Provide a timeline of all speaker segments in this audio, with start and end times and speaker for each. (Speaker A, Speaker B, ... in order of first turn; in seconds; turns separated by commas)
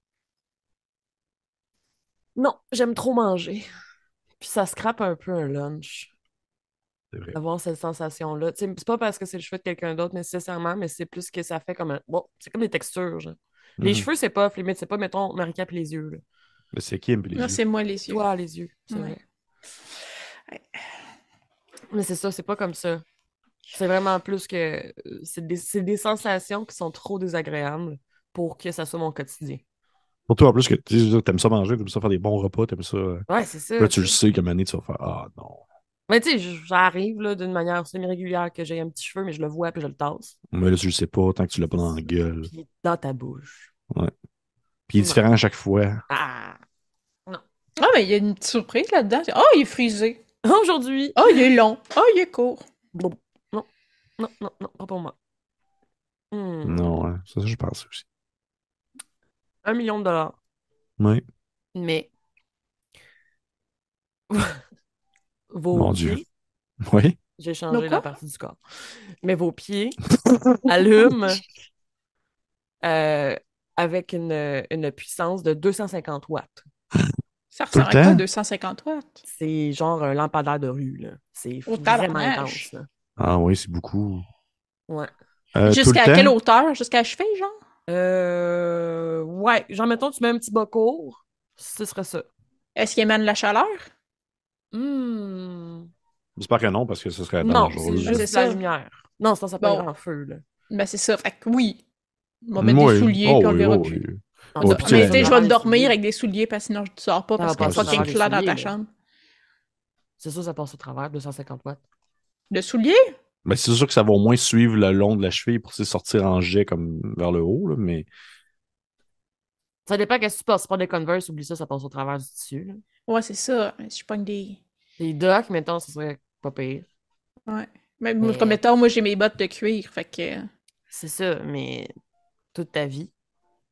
Speaker A: 2.4-3.6, Speaker A: 4.4-6.1, Speaker A: 7.3-16.2, Speaker B: 13.8-14.1, Speaker B: 16.7-17.6, Speaker C: 17.3-18.2, Speaker A: 18.1-19.2, Speaker C: 18.9-19.1, Speaker A: 21.9-23.0, Speaker A: 23.7-29.6, Speaker B: 30.3-33.2, Speaker A: 33.3-34.2, Speaker B: 33.8-35.6, Speaker A: 36.1-40.4, Speaker B: 40.5-42.5, Speaker A: 42.5-43.7, Speaker B: 44.9-46.0, Speaker A: 46.1-46.6, Speaker C: 47.8-50.2, Speaker A: 50.4-51.4, Speaker C: 51.1-52.6, Speaker A: 52.9-53.7, Speaker A: 54.2-55.1, Speaker A: 56.3-57.0, Speaker B: 56.6-58.0, Speaker A: 59.6-60.4, Speaker A: 61.7-62.1, Speaker A: 64.3-64.6, Speaker A: 65.5-66.2, Speaker B: 65.7-66.2, Speaker B: 66.8-67.2, Speaker A: 67.4-68.6, Speaker C: 67.7-68.1, Speaker A: 69.2-70.0, Speaker B: 70.2-70.6, Speaker A: 70.7-71.4, Speaker A: 72.8-76.6, Speaker C: 77.5-79.2, Speaker B: 77.7-78.2, Speaker A: 79.2-82.9, Speaker C: 81.7-82.7, Speaker B: 83.2-84.2, Speaker B: 85.5-86.3, Speaker C: 85.7-87.5, Speaker A: 87.9-92.3, Speaker C: 92.8-93.9, Speaker A: 94.7-95.9, Speaker B: 96.4-98.2, Speaker A: 97.4-100.4, Speaker C: 98.0-98.6, Speaker C: 99.6-99.8, Speaker C: 100.7-101.8, Speaker C: 102.5-104.0, Speaker B: 102.6-105.3, Speaker A: 104.5-105.9, Speaker C: 104.6-108.9, Speaker A: 107.4-108.7, Speaker B: 107.6-108.1, Speaker A: 110.2-111.8, Speaker C: 112.5-113.1, Speaker B: 113.4-118.1, Speaker A: 119.8-122.8, Speaker C: 123.1-124.6, Speaker A: 125.0-126.8, Speaker C: 127.5-130.5, Speaker A: 128.2-128.6, Speaker A: 130.9-131.9, Speaker A: 132.5-133.1